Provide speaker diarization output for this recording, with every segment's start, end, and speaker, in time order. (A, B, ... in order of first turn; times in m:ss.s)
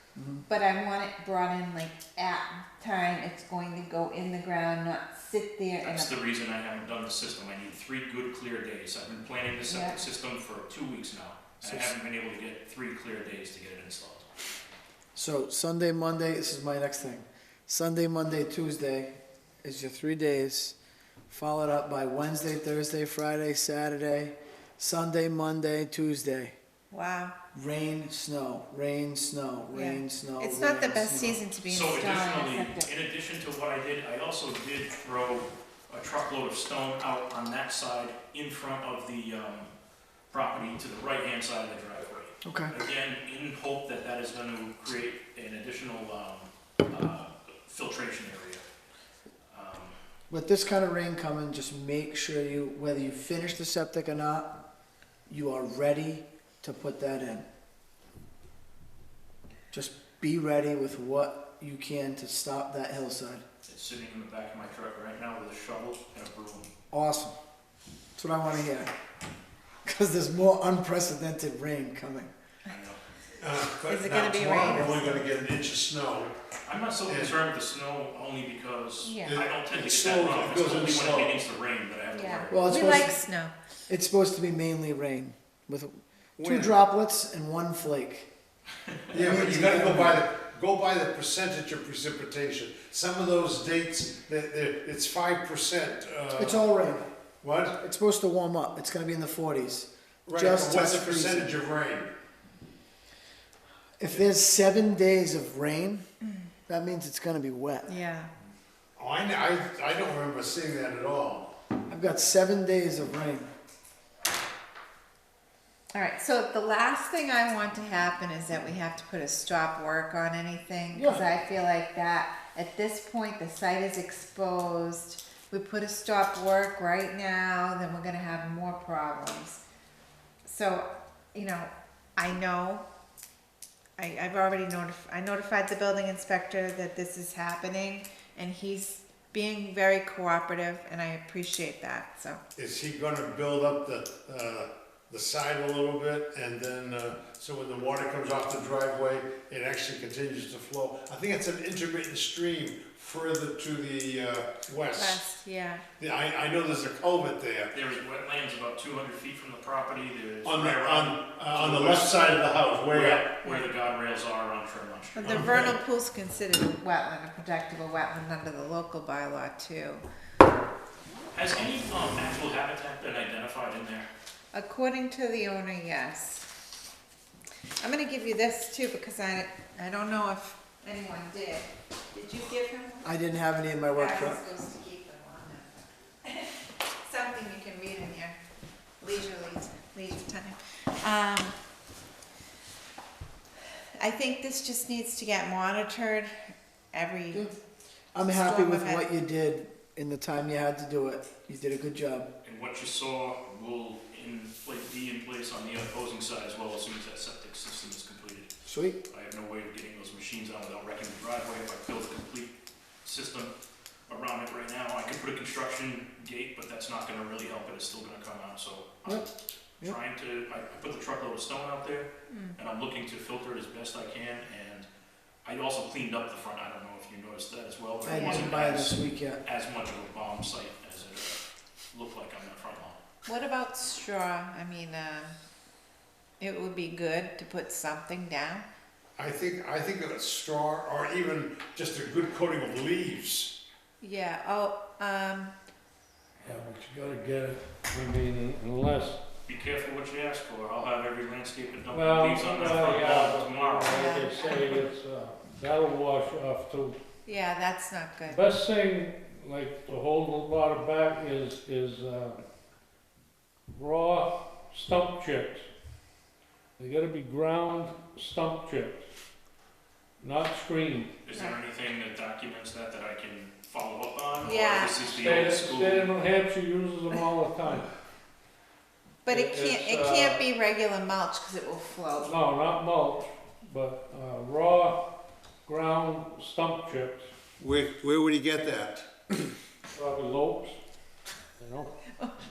0:00.1-0:00.5 A
0:00.5-0:06.2 B
0:05.8-0:14.3 C
0:09.6-0:10.0 B
0:11.6-0:11.9 A
0:15.1-0:20.8 A
0:21.3-0:26.6 A
0:26.9-0:27.3 B
0:27.5-0:31.4 A
0:29.7-0:32.9 B
0:31.6-0:39.7 C
0:40.3-0:48.6 C
0:42.4-0:42.7 A
0:49.5-0:50.0 C
0:50.3-0:54.6 A
0:55.3-0:57.4 A
0:59.7-1:03.4 A
1:03.7-1:06.7 C
1:06.9-1:07.3 A
1:08.2-1:08.9 A
1:09.8-1:12.3 A
1:12.7-1:13.0 C
1:13.4-1:16.3 D
1:13.8-1:15.2 B
1:16.6-1:22.8 C
1:17.1-1:17.4 D
1:19.0-1:19.4 B
1:19.2-1:21.4 D
1:22.1-1:23.5 B
1:22.5-1:23.2 A
1:23.9-1:28.3 A
1:26.4-1:26.7 D
1:29.1-1:36.7 D
1:29.1-1:30.2 A
1:36.4-1:37.1 A
1:37.4-1:37.8 D
1:37.8-1:41.5 A
1:40.2-1:42.1 D
1:44.0-1:46.0 A
1:46.7-1:47.9 A
1:47.9-1:48.3 B
1:49.0-1:51.5 D
1:51.9-1:53.5 A
1:55.9-2:09.6 B
2:00.9-2:01.2 A
2:10.4-2:12.8 B
2:14.0-2:22.4 B
2:22.6-2:35.3 D
2:34.9-2:35.8 B
2:36.0-2:37.7 D
2:37.7-2:45.7 C
2:40.4-2:43.3 D
2:43.4-2:43.7 B
2:45.2-2:50.0 B
2:45.2-2:45.8 D
2:51.3-2:54.1 C
2:54.5-2:56.5 B
2:57.8-3:03.1 B
3:03.0-3:04.5 A
3:03.9-3:08.4 B
3:09.0-3:11.6 B
3:14.0-3:16.3 B
3:16.9-3:17.4 B
3:18.1-3:22.3 A
3:18.2-3:19.0 B
3:22.4-3:28.5 C
3:28.6-3:29.0 A
3:29.1-3:33.5 C
3:34.1-3:39.3 C
3:39.8-3:44.9 C
3:42.3-3:42.6 B
3:45.4-3:53.0 C
3:48.0-3:49.4 A
3:48.1-3:48.4 B
3:53.2-3:55.3 B
3:56.4-3:58.6 B
3:59.2-4:03.5 D
4:04.0-4:05.5 B
4:06.4-4:09.2 E
4:09.4-4:14.0 C
4:11.9-4:17.0 E
4:13.9-4:14.6 B
4:17.2-4:18.4 B
4:18.3-4:22.4 E
4:23.7-4:25.7 E
4:26.8-4:29.0 E
4:30.2-4:31.2 E
4:31.2-4:36.1 C
4:34.4-4:35.0 B
4:35.0-4:37.9 E
4:39.2-4:40.4 E
4:39.2-4:42.4 B
4:42.2-4:45.0 E
4:45.6-4:47.3 E
4:47.6-4:49.5 D
4:49.9-4:50.8 E
4:51.6-4:52.2 E